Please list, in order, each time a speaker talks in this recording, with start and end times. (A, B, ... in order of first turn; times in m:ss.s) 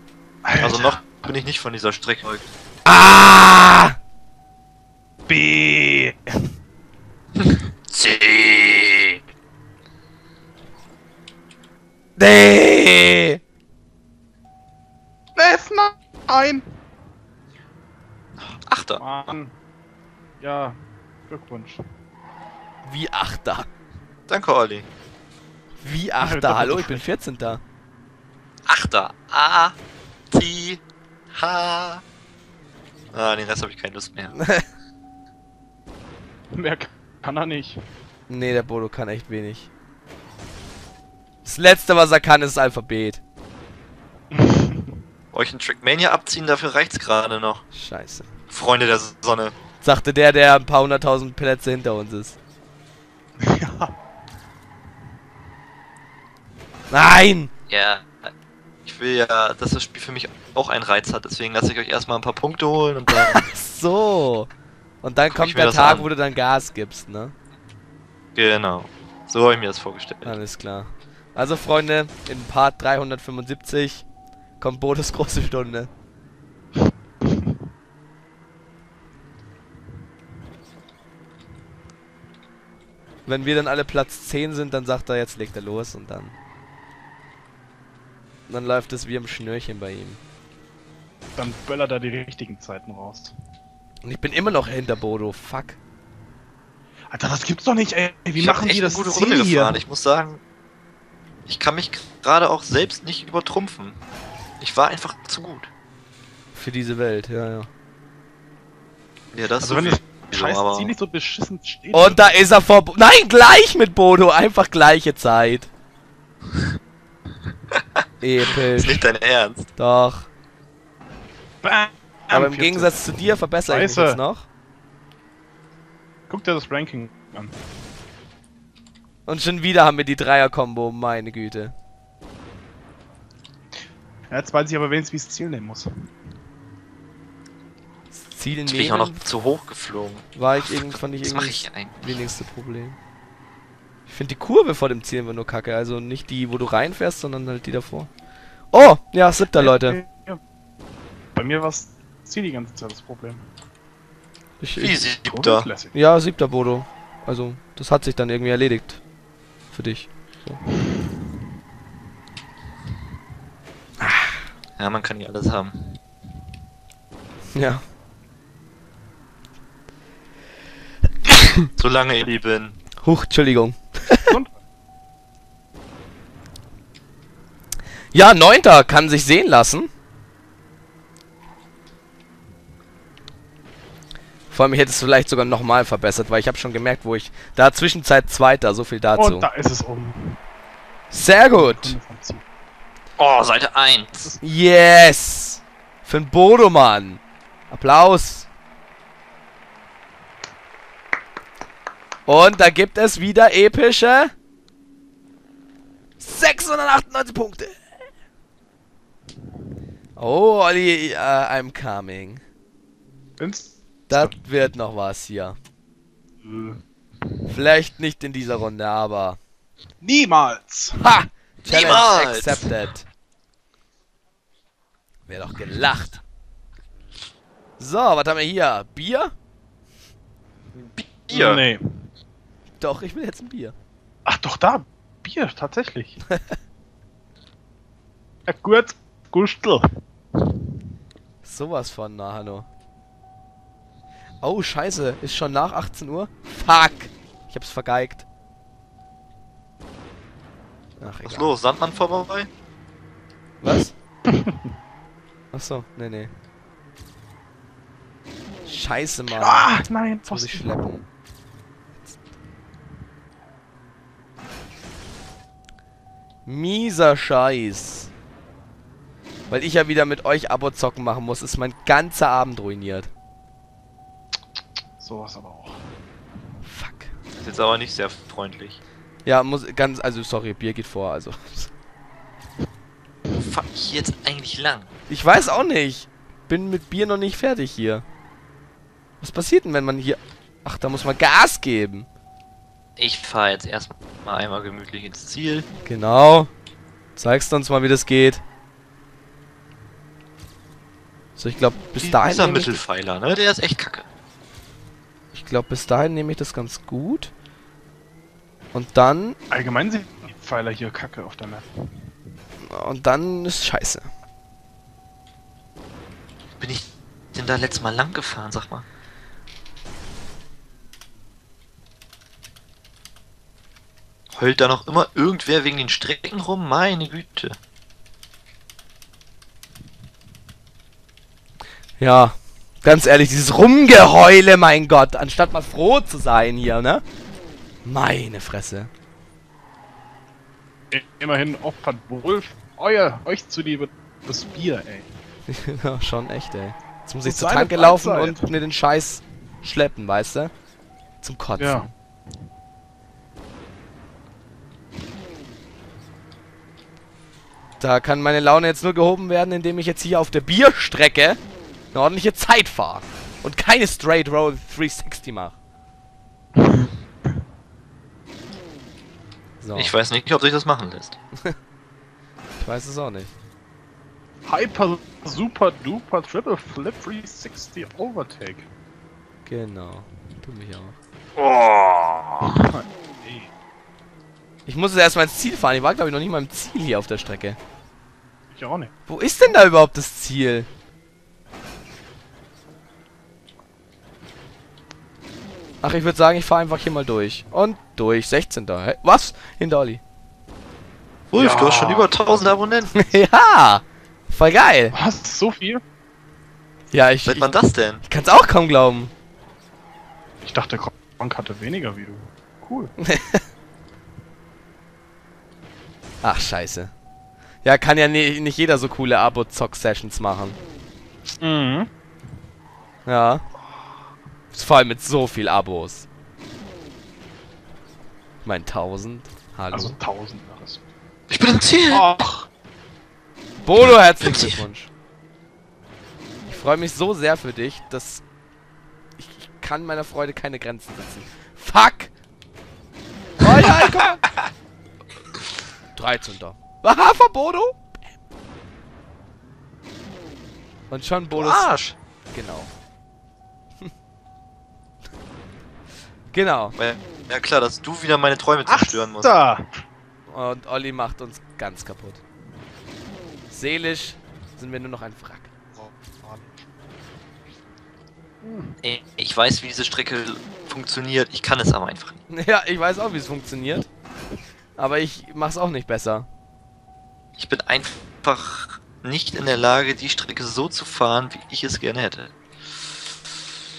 0:00.4-0:01.2 A
0:00.6-0:02.5 B
0:02.8-0:04.0 C
0:05.3-0:06.4 A
0:07.4-0:09.2 B
0:12.2-0:13.4 C
0:15.4-0:16.6 A
0:18.4-0:19.1 B
0:19.0-0:19.5 A
0:20.4-0:20.8 A
0:21.3-0:21.8 A
0:22.8-0:23.7 C
0:24.3-0:24.9 B
0:25.8-0:27.6 C
0:26.2-0:27.0 A
0:28.7-0:29.8 B
0:30.3-0:32.0 B
0:33.1-0:34.3 B
0:34.3-0:34.6 C
0:36.5-0:37.8 A
0:38.3-0:39.7 C
0:41.4-0:43.2 C
0:44.3-0:44.9 A
0:45.3-0:47.6 B
0:47.7-0:48.2 C
0:48.5-0:49.5 B
0:49.8-0:52.4 C
0:53.4-0:53.9 A
0:56.9-0:57.5 C
0:57.7-0:58.3 B
0:58.8-1:03.4 B
1:03.1-1:04.5 C
1:05.0-1:07.3 C
1:05.3-1:06.1 B
1:08.4-1:10.4 B
1:10.2-1:14.0 C
1:14.6-1:15.9 C
1:23.2-1:26.3 C
1:28.5-1:30.2 C
1:31.4-1:33.3 A
1:34.0-1:35.8 C
1:37.1-1:39.8 A
1:38.4-1:40.4 B
1:41.5-1:44.0 B
1:44.6-1:45.7 B
1:46.5-1:47.7 C
1:49.3-1:50.9 B
1:49.6-1:52.4 A
1:51.9-1:55.7 C
1:58.2-1:59.1 C
1:58.7-1:59.7 B
1:59.8-2:00.3 C
2:01.6-2:03.0 A
2:02.3-2:04.5 C
2:03.7-2:04.2 A
2:06.3-2:07.5 A
2:09.2-2:11.7 C
2:14.3-2:15.8 A
2:18.1-2:19.2 C
2:18.6-2:22.2 B
2:20.3-2:23.0 C
2:24.1-2:28.1 C
2:28.7-2:30.0 C
2:29.5-2:30.4 A
2:31.4-2:33.4 A
2:34.6-2:35.0 C
2:34.8-2:35.7 B
2:35.2-2:35.9 A
2:35.9-2:39.0 C
2:39.7-2:40.6 C
2:44.0-2:44.4 C
2:44.8-2:46.0 B
2:47.5-2:47.8 C
2:51.8-2:52.8 B
2:53.0-2:54.3 C
2:54.2-2:54.5 A
2:58.1-2:59.9 C
3:04.5-3:09.4 C
3:09.2-3:10.4 A
3:11.1-3:12.0 C
3:11.5-3:12.4 A
3:13.2-3:14.3 B
3:14.4-3:18.5 C
3:22.3-3:24.3 C
3:26.2-3:27.8 C
3:30.2-3:32.4 C
3:33.4-3:34.4 A
3:34.1-3:35.6 C
3:36.4-3:36.8 A
3:37.5-3:39.4 C
3:40.0-3:41.0 A
3:41.0-3:43.1 C
3:41.6-3:42.7 B
3:45.3-3:46.2 C
3:47.8-3:49.3 C
3:50.7-3:51.6 B
3:51.3-3:51.8 A
3:52.8-3:53.7 C
3:54.2-3:56.2 A
3:56.3-3:56.6 C
3:58.5-3:59.8 A
4:01.4-4:02.7 C
4:04.4-4:08.2 C
4:11.0-4:11.5 C
4:11.2-4:12.5 B
4:13.6-4:13.9 C
4:14.3-4:14.6 A
4:15.5-4:16.3 C
4:18.6-4:19.7 C
4:19.4-4:20.8 A
4:20.2-4:21.1 C
4:26.4-4:28.1 C
4:29.5-4:33.1 C
4:35.0-4:35.8 A
4:36.6-4:37.1 C
4:37.3-4:38.8 B
4:39.2-4:41.7 C
4:43.3-4:44.9 B
4:45.1-4:48.0 C
4:49.2-4:52.1 C
4:53.0-4:55.7 B
4:55.8-4:56.5 C
4:57.2-4:58.4 C
5:01.4-5:02.8 C
5:02.0-5:04.0 B
5:05.3-5:07.3 C
5:08.7-5:09.4 C
5:09.5-5:11.7 A
5:12.6-5:14.1 C
5:16.6-5:18.8 B
5:24.3-5:27.6 B
5:32.0-5:37.0 C
5:37.8-5:38.9 C
5:40.9-5:45.1 A
5:45.5-5:50.5 C
5:47.2-5:48.5 A
5:51.2-5:51.9 C
5:51.6-5:51.9 A
5:57.8-6:01.4 C
6:01.9-6:05.6 C
6:06.6-6:06.8 A
6:09.6-6:09.9 C
6:09.7-6:11.2 B
6:12.6-6:13.3 C
6:14.4-6:18.7 A
6:19.5-6:21.0 C
6:21.4-6:22.3 B
6:22.4-6:23.5 A
6:24.7-6:27.6 C
6:28.5-6:28.9 A
6:29.1-6:30.7 C
6:35.8-6:40.0 C
6:41.3-6:43.0 B
6:41.3-6:42.3 A
6:42.9-6:45.0 C
6:44.9-6:45.8 A
6:46.9-6:49.1 C
6:47.2-6:48.0 B
6:50.4-6:52.9 A
6:53.0-6:53.4 C
6:56.2-6:56.9 C
6:57.6-7:00.6 C
7:01.4-7:01.9 A
7:03.0-7:03.4 C
7:04.5-7:06.1 C
7:08.4-7:10.0 C
7:09.7-7:10.8 A
7:11.3-7:12.1 B
7:11.9-7:12.4 A
7:13.6-7:14.9 C
7:14.2-7:14.6 B
7:16.5-7:18.2 C
7:19.2-7:22.1 C
7:23.4-7:24.2 C
7:23.5-7:24.1 B
7:25.9-7:28.0 C
7:30.9-7:31.8 C
7:31.3-7:32.0 B
7:32.3-7:32.7 C
7:36.3-7:36.8 C
7:36.8-7:39.3 B
7:38.6-7:39.7 A
7:40.3-7:42.2 C
7:43.5-7:45.5 C
7:45.8-7:46.6 A
7:48.4-7:48.7 A
7:48.8-7:52.2 B
7:52.3-7:53.9 C
7:54.8-7:56.3 C
7:57.4-8:02.3 B